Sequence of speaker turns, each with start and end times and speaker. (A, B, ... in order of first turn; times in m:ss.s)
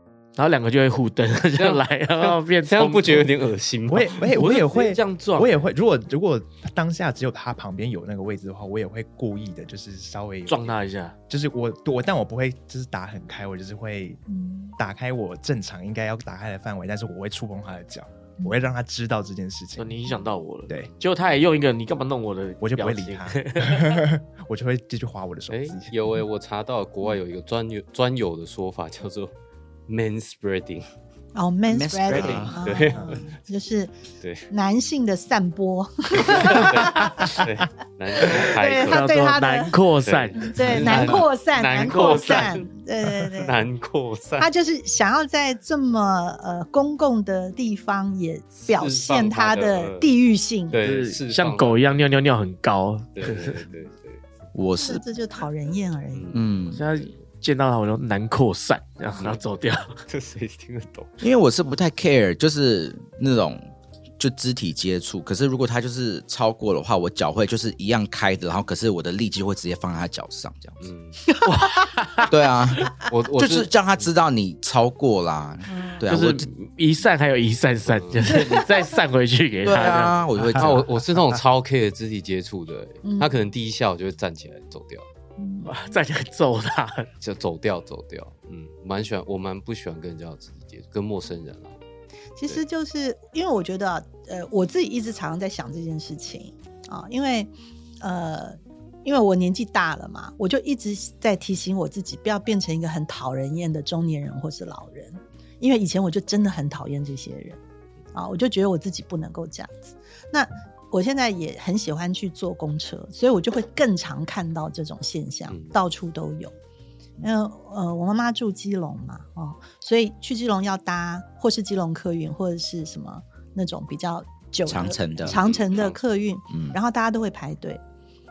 0:00.4-0:03.3 A
0:01.6-0:04.5 B
0:03.9-0:14.2 C
0:04.3-0:05.6 A
0:10.5-0:11.2 A
0:14.3-0:14.8 D
0:14.8-0:20.1 C
0:19.8-0:24.0 A
0:22.6-0:26.2 C
0:25.5-0:29.3 B
0:29.9-0:30.9 B
0:31.3-0:33.9 D
0:31.7-0:32.9 E
0:32.1-0:33.2 B
0:34.2-0:34.4 B
0:34.5-0:37.4 D
0:36.2-0:39.1 B
0:37.0-0:37.3 A
0:38.3-0:39.8 D
0:38.8-0:41.2 A
0:40.0-0:44.5 B
0:40.3-0:43.5 D
0:41.8-0:42.6 A
0:44.4-0:50.8 D
0:48.6-0:50.1 B
0:50.7-0:51.9 B
0:50.8-0:53.6 A
0:53.2-0:54.2 B
0:54.5-0:55.0 E
0:54.8-0:56.4 D
0:56.1-0:56.4 B
0:56.3-0:56.8 E
0:56.7-1:00.0 A
0:59.1-0:59.4 B
1:00.1-1:01.1 B
1:01.2-1:03.7 E
1:04.2-1:10.8 E
1:10.8-1:11.2 B
1:11.3-1:11.9 D
1:11.5-1:12.3 A
1:12.3-1:16.5 E
1:13.0-1:14.0 B
1:16.0-1:20.2 A
1:17.9-1:18.4 B
1:19.6-1:20.8 E
1:20.5-1:25.0 B
1:23.0-1:23.3 D
1:25.4-1:25.8 D
1:25.6-1:27.1 A
1:27.2-1:31.8 B
1:32.4-1:47.6 D
1:48.1-1:56.5 D
1:55.5-1:55.7 B
1:57.2-2:07.8 D
2:04.7-2:05.4 E
2:05.2-2:06.0 B
2:06.5-2:06.8 E